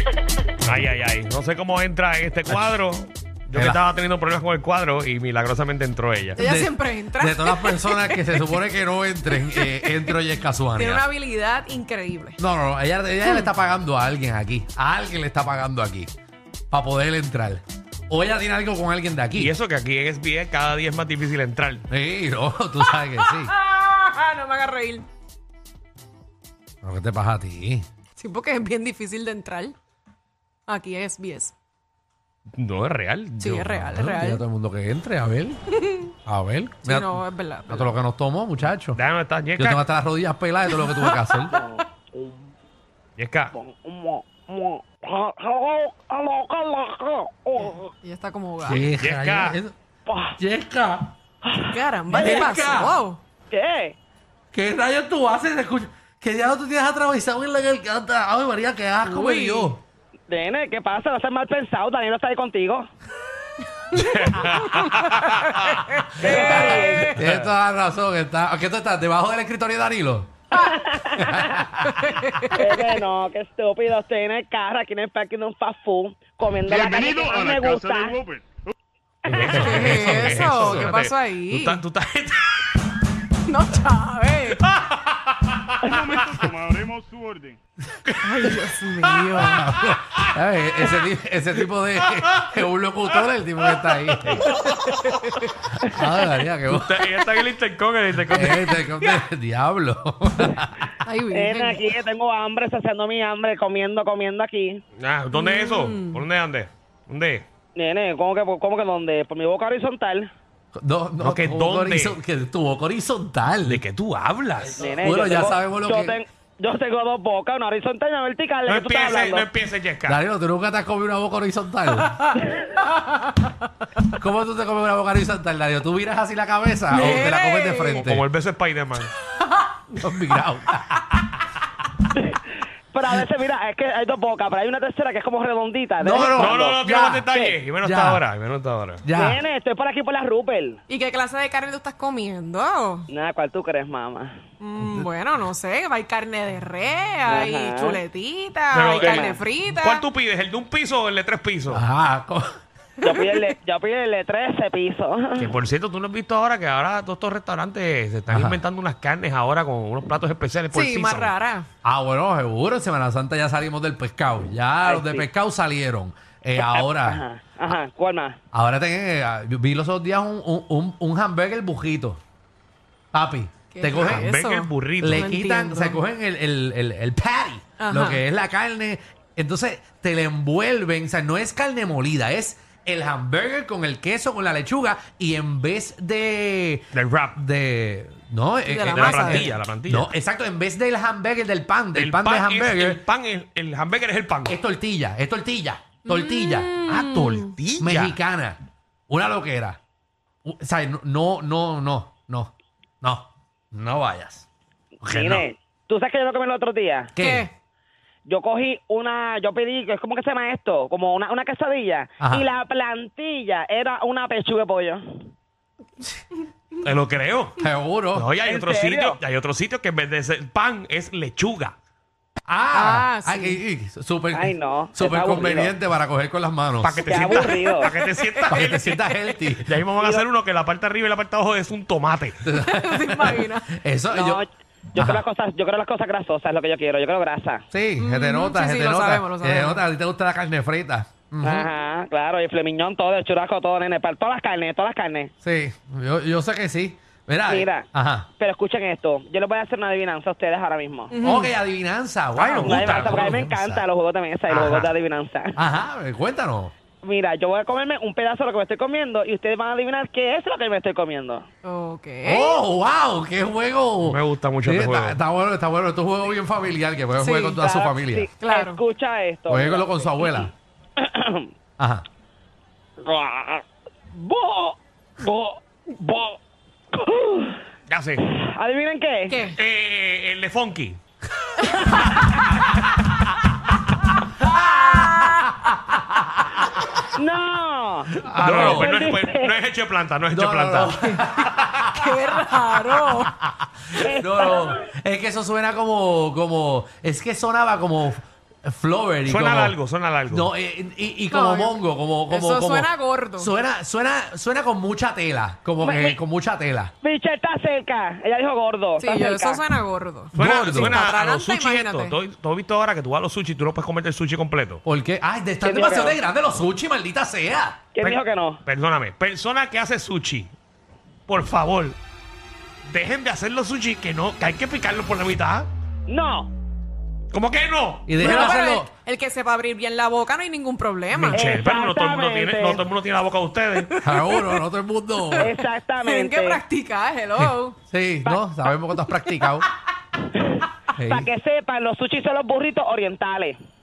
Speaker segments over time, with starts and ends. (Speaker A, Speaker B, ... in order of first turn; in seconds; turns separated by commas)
Speaker A: 0.6-6.4, Speaker B: 3.5-3.8, Speaker C: 6.3-8.6, Speaker B: 6.4-11.0, Speaker C: 9.3-10.2, Speaker C: 10.7-12.4, Speaker B: 12.4-16.1, Speaker B: 16.7-19.5, Speaker A: 19.4-21.8, Speaker B: 21.9-23.5, Speaker C: 22.9-25.1, Speaker B: 26.8-27.8, Speaker C: 28.1-29.7, Speaker C: 30.7-31.5, Speaker A: 32.5-33.8, Speaker C: 33.4-34.4, Speaker B: 33.7-35.6, Speaker C: 35.7-36.1, Speaker B: 36.2-39.0, Speaker C: 36.8-37.9, Speaker A: 38.9-39.8, Speaker B: 39.5-41.5, Speaker C: 40.7-41.5, Speaker D: 41.5-42.5, Speaker A: 43.2-43.5, Speaker D: 43.5-47.9, Speaker C: 47.6-48.8, Speaker B: 48.6-49.7, Speaker A: 48.8-49.6, Speaker D: 50.1-50.4, Speaker B: 50.4-51.1, Speaker D: 51.4-52.5, Speaker C: 51.6-53.2, Speaker B: 52.1-52.9, Speaker D: 53.5-54.0, Speaker B: 54.5-59.8, Speaker C: 59.0-59.7, Speaker D: 60.3-62.9, Speaker A: 63.9-67.5, Speaker C: 64.5-67.1, Speaker D: 66.2-67.1, Speaker B: 66.2-70.3, Speaker D: 70.5-71.5, Speaker B: 71.2-72.1, Speaker C: 71.8-73.0, Speaker D: 72.5-78.2, Speaker E: 76.7-78.5, Speaker D: 79.2-79.7, Speaker A: 79.3-82.9, Speaker B: 79.3-81.0, Speaker C: 79.5-81.8, Speaker C: 83.5-84.6, Speaker A: 84.6-86.4, Speaker E: 85.9-87.6, Speaker A: 88.1-88.5, Speaker C: 88.2-89.7, Speaker A: 89.0-90.3, Speaker B: 89.3-94.5, Speaker A: 93.9-95.1, Speaker C: 94.6-95.4, Speaker B: 95.8-97.0, Speaker A: 96.7-98.8, Speaker B: 98.3-101.0, Speaker C: 101.0-102.0, Speaker D: 101.3-104.8, Speaker A: 105.0-107.5, Speaker C: 105.3-106.2, Speaker D: 107.7-110.3, Speaker B: 110.7-113.8, Speaker A: 111.2-112.2, Speaker A: 113.7-114.8, Speaker D: 114.8-119.5, Speaker B: 115.0-116.2, Speaker A: 118.7-120.2, Speaker B: 120.1-122.1, Speaker B: 124.0-128.2, Speaker C: 126.9-128.1, Speaker A: 127.9-129.1, Speaker B: 130.0-131.3, Speaker D: 132.1-132.4, Speaker D: 132.9-136.8, Speaker B: 136.0-137.3, Speaker A: 136.3-139.0, Speaker B: 137.8-138.2, Speaker B: 139.0-139.4, Speaker D: 139.2-140.8, Speaker C: 140.9-143.1, Speaker D: 143.1-144.4, Speaker C: 144.6-150.0, Speaker B: 144.8-145.1, Speaker D: 147.2-148.0, Speaker A: 148.7-151.8, Speaker D: 148.9-149.4, Speaker B: 151.7-152.5, Speaker C: 153.0-153.5, Speaker D: 153.0-155.5, Speaker A: 155.4-161.3, Speaker B: 158.3-158.6, Speaker C: 160.7-161.7, Speaker B: 161.8-167.2, Speaker D: 164.8-165.2, Speaker D: 166.6-168.4, Speaker B: 168.5-172.2, Speaker B: 173.1-174.3, Speaker C: 173.7-176.0, Speaker A: 173.9-175.3, Speaker B: 175.0-193.0, Speaker C: 177.8-178.2, Speaker A: 186.9-187.4, Speaker C: 188.7-189.5, Speaker A: 188.9-190.1, Speaker A: 191.9-194.6, Speaker B: 194.5-196.8, Speaker C: 196.0-197.5, Speaker A: 196.9-198.2, Speaker B: 197.8-198.6, Speaker B: 199.1-199.8, Speaker B: 200.4-202.5, Speaker B: 203.0-204.4, Speaker B: 205.0-205.4, Speaker D: 205.0-207.1, Speaker B: 207.2-207.4, Speaker C: 207.2-207.5, Speaker D: 208.3-215.0, Speaker A: 216.8-217.6, Speaker B: 217.6-218.3, Speaker A: 218.1-221.7, Speaker D: 218.4-219.2, Speaker B: 222.5-227.4, Speaker C: 222.7-223.6, Speaker D: 224.3-225.7, Speaker A: 226.8-232.4, Speaker D: 227.0-227.9, Speaker C: 227.9-228.6, Speaker B: 228.4-229.8, Speaker D: 230.0-230.2, Speaker B: 232.4-234.4, Speaker C: 232.5-233.7, Speaker D: 234.1-237.6, Speaker B: 234.9-235.2, Speaker B: 237.7-241.7, Speaker C: 238.0-239.8, Speaker D: 241.4-245.3, Speaker B: 245.4-248.3, Speaker D: 247.5-251.1, Speaker C: 251.1-251.5, Speaker B: 251.2-253.8, Speaker A: 252.3-253.4, Speaker D: 252.6-255.6, Speaker A: 254.5-254.9, Speaker B: 255.6-256.7, Speaker D: 257.0-261.4, Speaker C: 261.6-262.6, Speaker B: 262.2-268.3, Speaker A: 264.0-265.2, Speaker C: 267.2-267.6, Speaker D: 267.6-271.5, Speaker C: 268.4-268.8, Speaker B: 269.5-270.5, Speaker B: 271.8-272.0, Speaker D: 273.0-276.4, Speaker D: 276.9-277.6, Speaker A: 277.9-278.2, Speaker D: 278.2-279.4, Speaker C: 279.3-279.6, Speaker A: 279.5-281.0, Speaker D: 281.9-282.7, Speaker B: 284.4-286.9, Speaker C: 285.1-285.4, Speaker D: 287.1-289.5, Speaker B: 288.2-289.0, Speaker A: 288.3-291.6, Speaker B: 290.3-292.2, Speaker C: 291.9-293.3, Speaker B: 293.0-306.9, Speaker D: 293.9-294.8, Speaker A: 299.2-300.5, Speaker C: 301.3-303.5, Speaker D: 305.8-306.2, Speaker D: 307.0-309.6, Speaker C: 309.0-312.1, Speaker B: 310.3-311.0, Speaker A: 310.3-314.8, Speaker B: 314.8-317.8, Speaker D: 315.6-316.2, Speaker D: 317.9-318.6, Speaker A: 318.0-320.5, Speaker A: 321.3-322.0, Speaker A: 322.9-325.7, Speaker D: 326.1-326.5, Speaker A: 327.3-328.5, Speaker B: 328.1-328.9, Speaker C: 328.2-331.6, Speaker A: 331.1-333.9, Speaker D: 331.3-332.9, Speaker C: 333.8-334.6, Speaker B: 334.0-335.5, Speaker C: 335.3-337.8, Speaker D: 335.4-336.6, Speaker B: 337.4-339.7, Speaker D: 340.3-343.6, Speaker B: 340.9-341.3